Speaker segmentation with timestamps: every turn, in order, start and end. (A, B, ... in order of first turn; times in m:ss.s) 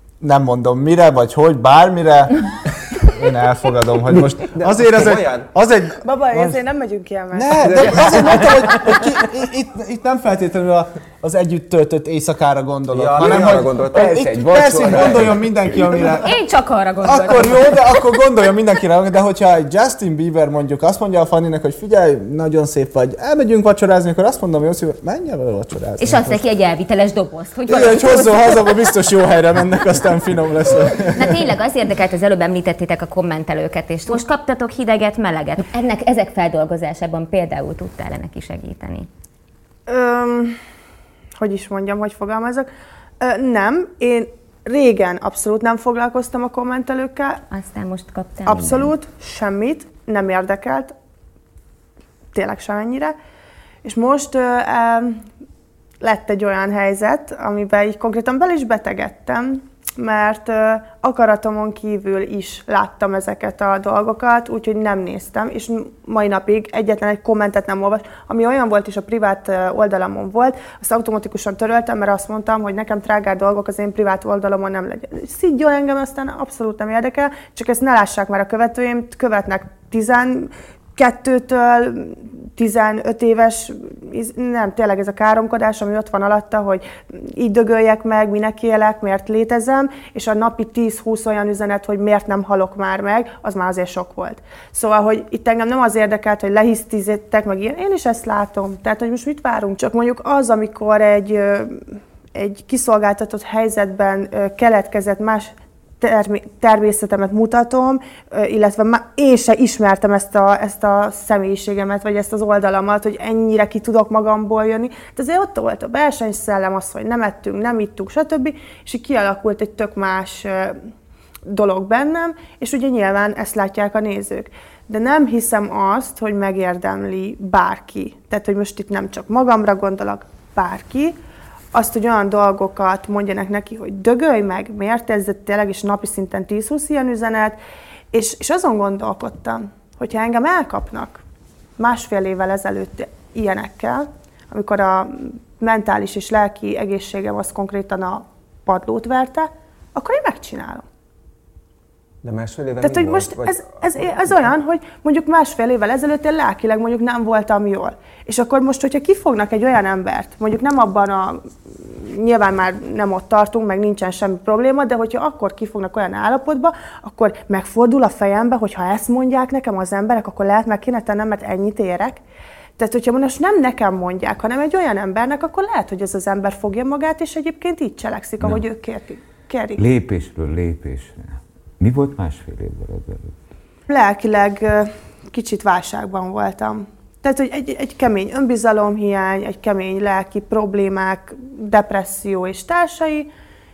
0:00.2-0:06.6 A
0:04.1-0:05.5 B
0:06.0-0:08.4 C
0:07.3-0:16.4 A
0:07.6-0:09.0 B
0:12.9-0:14.2 B
0:13.2-0:15.7 D
0:14.9-0:15.1 B
0:15.8-0:18.0 E
0:17.0-0:26.4 A
0:26.0-0:28.9 E
0:27.7-0:31.4 A
0:30.9-0:39.1 E
0:39.9-0:40.6 C
0:41.4-0:42.7 C
0:43.2-0:47.4 C
0:47.5-0:48.9 E
0:48.4-0:50.9 C
0:52.3-0:53.1 C
0:53.8-0:55.2 C
0:56.0-2:00.8 C
2:01.5-2:11.2 C
2:11.7-2:17.6 C
2:18.1-2:21.2 C
2:21.8-2:30.8 C
2:32.2-2:33.6 B
2:32.8-2:52.2 C
2:52.8-2:59.8 C
2:59.8-3:03.3 D
3:03.9-3:13.3 C